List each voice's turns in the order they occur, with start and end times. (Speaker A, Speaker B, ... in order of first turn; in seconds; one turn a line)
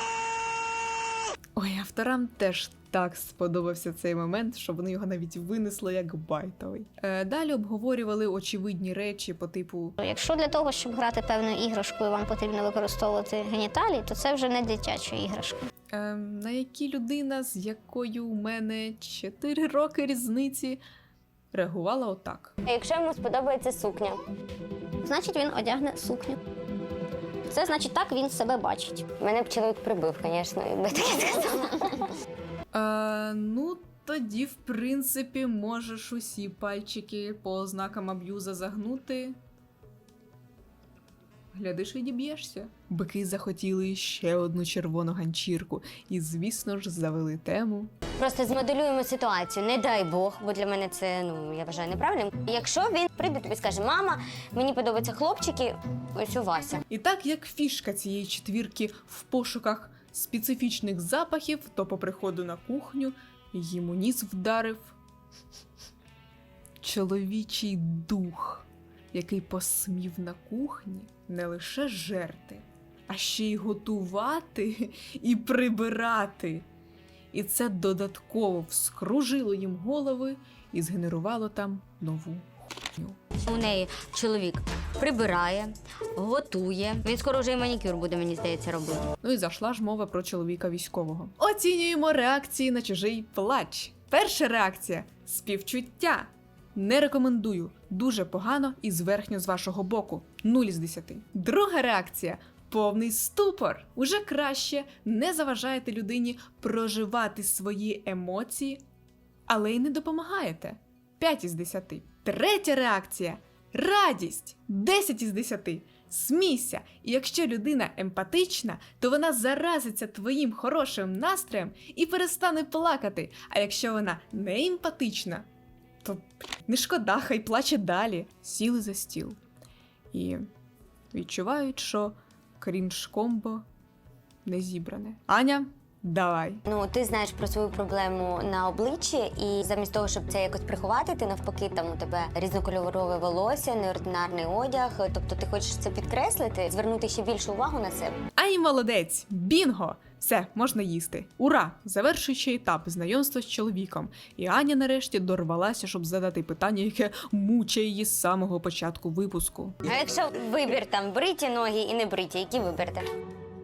Speaker A: 1.6-10.0
Speaker B: 10.0-15.7
Speaker A: 15.9-20.8
Speaker A: 21.5-22.6
Speaker C: 22.7-24.2
Speaker B: 25.0-26.4
Speaker B: 27.5-29.1
Speaker C: 29.2-31.4
Speaker B: 31.2-32.0
Speaker A: 32.7-39.4
Speaker A: 41.5-47.9
Speaker C: 48.2-56.8
Speaker A: 56.9-65.0
Speaker A: 66.8-76.7
Speaker A: 77.3-83.2
Speaker C: 83.5-89.0
Speaker A: 89.2-108.8
Speaker A: 109.5-125.5
Speaker A: 126.0-129.4
Speaker A: 130.1-130.5
Speaker A: 131.1-133.6
Speaker A: 134.4-136.6
Speaker C: 136.7-148.2
Speaker A: 148.4-159.8
Speaker C: 159.9-163.1